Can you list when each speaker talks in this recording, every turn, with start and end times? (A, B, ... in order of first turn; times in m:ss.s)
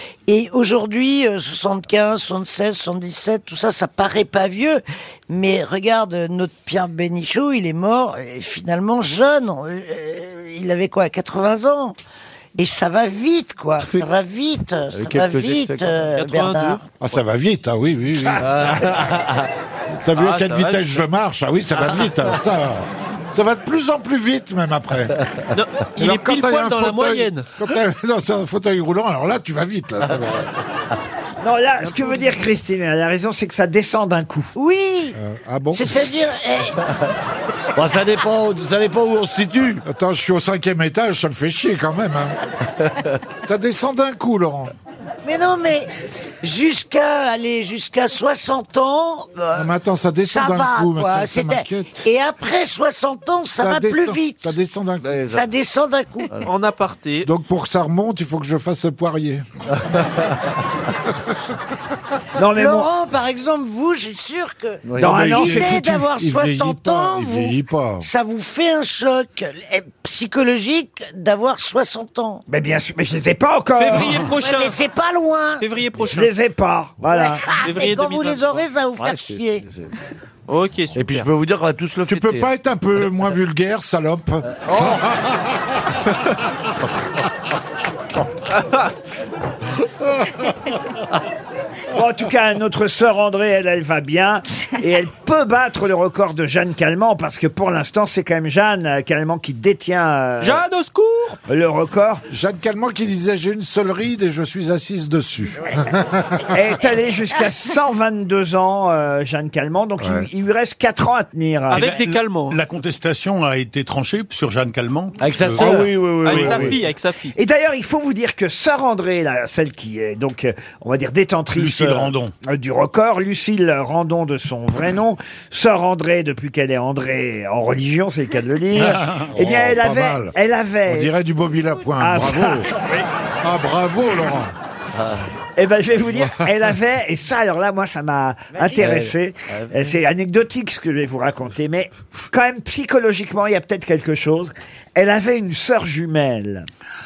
0:00.3-0:12.0 A
0:12.6-0:16.8 A
0:14.9-0:15.9 B
0:16.2-0:16.8 C
0:17.0-0:19.0 D
0:18.4-0:19.4 B
0:20.0-0:25.2 D
0:20.2-0:21.0 C
0:25.5-0:27.5 C
0:26.0-0:30.5 D
0:31.4-0:34.5 E
0:34.6-0:35.2 A
0:35.2-0:36.0 D
0:35.7-0:36.8 A
0:37.8-0:39.8 B
0:39.8-0:42.4 D
0:43.4-0:44.7 D
0:45.2-0:45.9 A
0:46.4-0:49.7 A
0:49.5-0:52.1 D
0:50.2-0:54.5 A
0:53.6-0:55.2 D
0:55.0-0:55.4 B
0:55.3-0:56.3 A
0:56.4-0:57.3 C
0:57.2-0:59.5 D
1:02.4-1:02.9 E
1:02.5-1:12.4 A
1:04.8-1:05.2 B
1:05.0-1:06.1 E
1:05.0-1:08.1 D
1:12.5-1:14.2 E
1:13.8-1:14.8 C
1:14.4-1:15.6 A
1:15.6-1:16.3 C
1:16.0-1:17.5 E
1:17.1-1:19.7 A
1:17.6-1:18.6 C
1:19.0-1:19.9 B
1:20.5-1:21.3 C
1:21.0-1:22.5 B
1:22.1-1:25.2 D
1:24.6-1:25.0 B
1:31.9-1:40.6 E
1:40.4-1:41.4 C
1:41.5-1:42.2 E
1:42.3-1:46.4 D
1:46.5-1:52.0 E
1:50.0-1:50.3 D
1:51.7-1:52.6 C
1:51.8-1:56.6 F
1:55.2-1:56.2 B
1:55.6-1:56.8 E
1:56.2-1:57.4 C
1:57.4-2:11.1 E
2:01.6-2:02.3 F
2:09.1-2:10.3 D
2:10.8-2:12.7 D
2:12.0-2:12.7 E
2:13.4-2:14.5 D
2:15.0-2:15.3 B
2:15.6-2:26.7 E
2:18.6-2:18.8 A
2:18.8-2:19.8 B